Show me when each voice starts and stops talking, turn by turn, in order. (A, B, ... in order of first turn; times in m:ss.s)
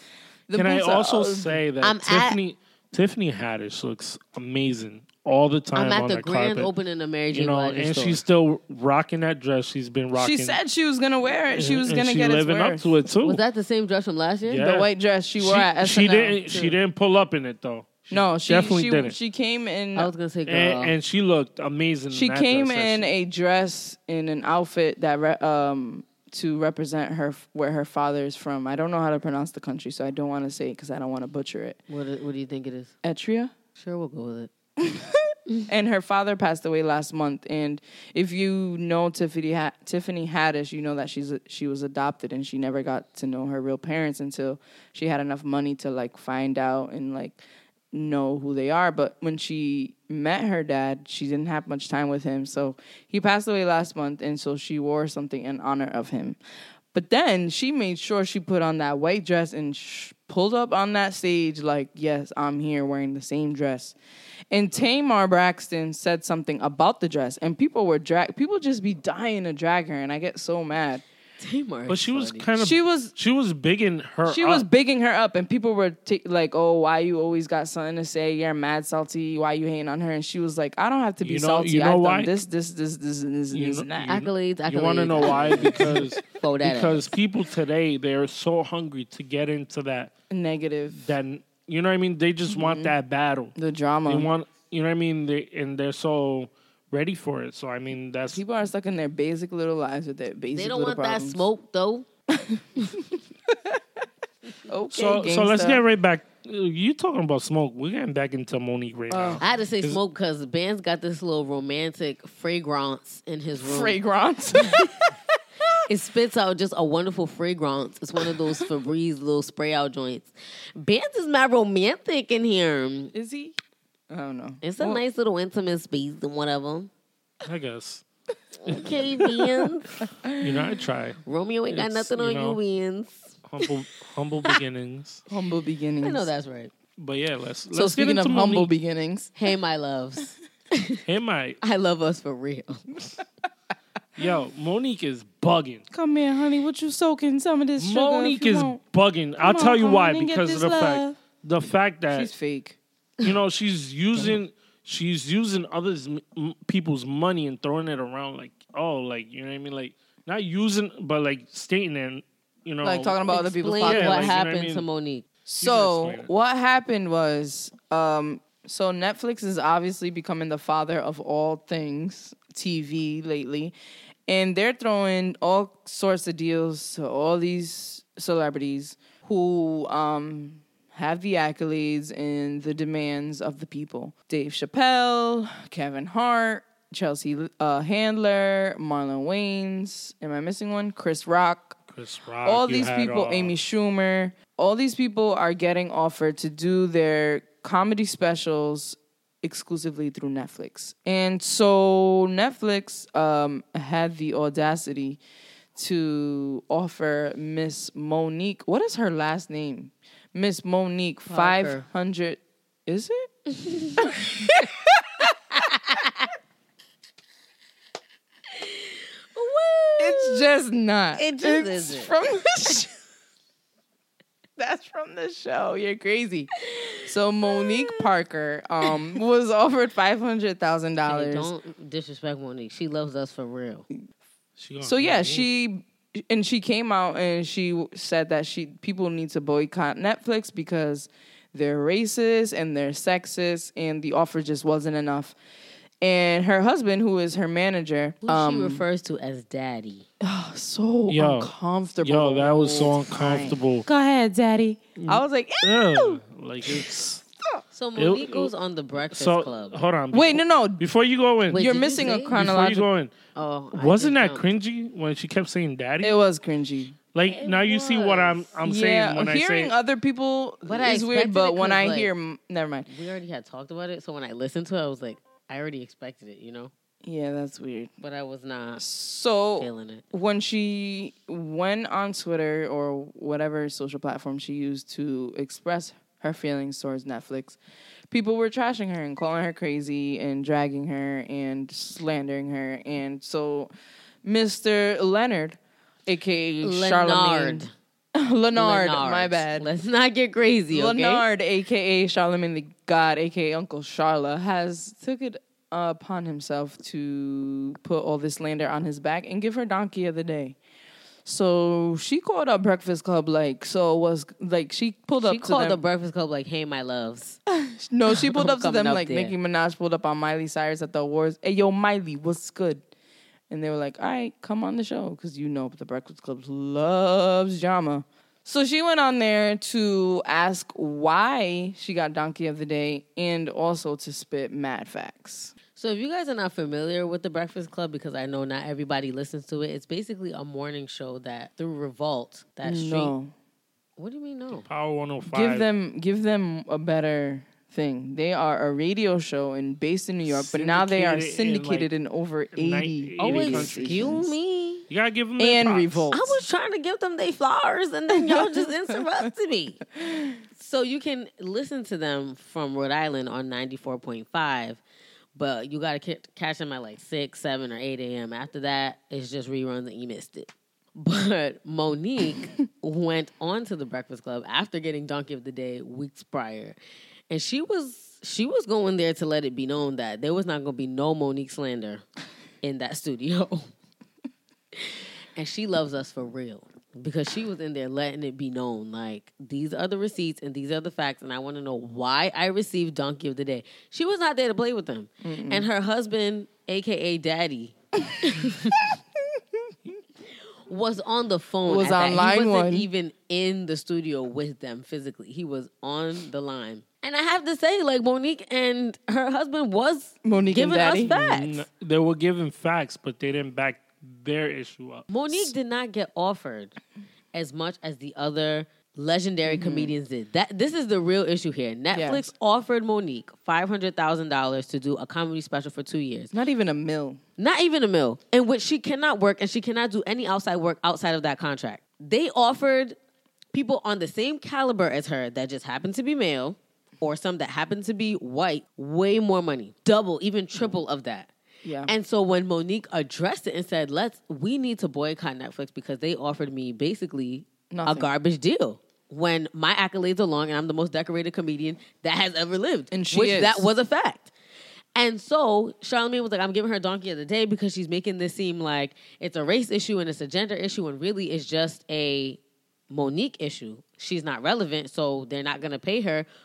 0:00.5-0:01.6 A
0:00.5-0:06.7 B
0:01.8-0:02.4 C
0:05.7-0:08.2 C
0:07.3-0:10.6 B
0:10.1-0:12.9 A
0:11.5-0:13.4 B
0:13.2-0:14.6 C
0:14.5-0:19.2 B
0:14.6-0:16.7 A
0:18.1-0:20.1 A
0:19.9-0:20.9 C
0:20.5-0:23.1 B
0:22.1-0:31.8 A
0:31.9-0:32.9 C
0:33.0-0:33.5 A
0:33.8-0:34.5 C
0:34.8-0:47.4 A
0:47.9-0:56.4 A
0:56.9-1:04.0 A
1:04.5-1:11.0 A
1:11.4-1:12.5 C
1:11.9-1:14.6 B
1:12.6-1:13.1 A
1:14.2-1:24.2 A
1:21.2-1:22.4 B
1:23.5-1:30.1 B
1:24.1-1:27.1 C
1:25.6-1:26.0 A
1:30.3-1:31.1 A
1:30.9-1:33.5 B
1:32.5-1:32.9 A
1:33.6-1:34.3 A
1:34.0-1:38.4 B
1:38.3-1:41.4 A
1:40.5-1:42.0 C
1:42.3-1:43.8 A
1:44.6-1:45.8 A
1:44.9-1:50.0 B
1:49.1-1:49.4 A
1:49.4-1:54.0 C
1:53.6-1:55.1 A
1:54.6-1:54.9 C
1:55.9-2:03.1 C
1:58.2-1:58.6 A
2:03.1-2:03.6 A
2:04.1-2:05.0 A
2:04.6-2:06.9 C
2:07.4-2:08.0 B
2:08.6-2:10.0 C
2:08.6-2:09.0 B
2:10.2-2:10.8 A
2:10.4-2:12.6 B
2:11.2-2:13.4 C
2:13.4-2:15.2 B
2:15.3-2:16.3 A
2:16.0-2:16.7 C
2:17.0-2:18.7 B
2:17.7-2:19.3 A
2:19.3-2:21.0 C
2:21.0-2:21.6 B
2:21.6-2:23.0 C
2:24.2-2:25.8 B
2:25.9-2:28.8 A
2:27.8-2:32.3 B
2:29.4-2:31.2 A
2:32.1-2:32.8 A
2:33.2-2:43.2 B
2:42.8-2:44.4 A
2:43.3-2:45.2 C
2:43.8-2:44.8 B
2:45.5-2:53.7 A
2:45.6-2:46.3 B
2:54.3-3:11.8 A
3:11.9-3:13.6 B
3:12.4-3:25.2 A
3:25.8-3:33.3 A
3:31.3-3:31.8 C
3:33.6-3:34.2 C
3:34.0-3:35.7 A
3:35.5-3:36.3 C
3:38.5-3:40.5 C
3:40.0-3:42.9 A
3:41.2-3:42.1 C
3:44.6-3:51.5 A
3:46.7-3:47.0 C
3:47.5-3:48.0 C
3:51.0-3:53.8 C
3:54.6-3:55.5 B
3:54.8-4:05.4 A
4:06.0-4:08.8 A
4:08.2-4:10.1 C
4:10.2-4:17.0 A
4:11.1-4:13.8 B
4:15.0-4:17.2 B
4:17.7-4:19.8 C
4:18.0-4:18.5 B
4:19.1-4:21.7 B
4:20.1-4:20.8 A
4:21.5-4:22.4 C
4:21.5-4:22.9 A
4:22.3-4:23.1 B
4:23.3-4:24.4 C
4:23.7-4:26.2 B
4:26.0-4:27.0 A
4:27.1-4:29.7 B
4:27.2-4:28.5 C
4:28.6-4:32.9 A
4:30.6-4:32.1 C
4:32.9-4:36.7 C
4:37.0-4:37.9 A
4:38.0-4:38.8 C
4:38.8-4:47.6 A
4:39.6-4:40.0 C
4:48.1-4:53.7 A
4:54.2-4:59.7 A
4:56.6-4:57.7 C
4:58.5-5:01.2 C
5:00.7-5:10.6 A
5:11.2-5:15.8 A
5:15.2-5:17.4 C
5:17.5-5:22.8 A
5:18.1-5:19.3 C
5:23.5-5:35.5 A
5:35.7-5:43.1 C
5:42.6-5:43.3 A
5:44.0-5:44.7 C
5:44.6-5:45.7 B
5:45.3-5:54.3 A
5:50.2-5:51.9 B
5:52.5-5:54.3 B
5:53.2-5:54.8 C
5:54.9-5:56.1 B
5:55.4-5:56.4 A
5:56.1-5:59.8 C
5:58.2-5:59.0 A
6:00.0-6:00.3 A
6:00.5-6:04.8 C
6:05.3-6:16.8 C
6:17.3-6:22.0 C
6:22.6-6:23.7 C
6:24.8-6:38.9 C
6:35.2-6:35.7 A
6:40.7-6:51.6 C
6:41.7-6:42.9 A
6:50.2-6:51.3 A
6:51.2-6:55.5 B
6:55.1-6:56.8 C
6:57.3-7:06.3 C
6:59.5-6:59.9 A
7:01.9-7:02.3 A
7:06.3-7:07.2 A
7:07.4-7:13.0 C
7:13.5-7:21.3 C
7:21.6-7:21.9 A
7:21.8-7:34.3 C
7:27.7-7:28.1 A
7:32.9-7:33.7 A
7:34.9-7:46.3 C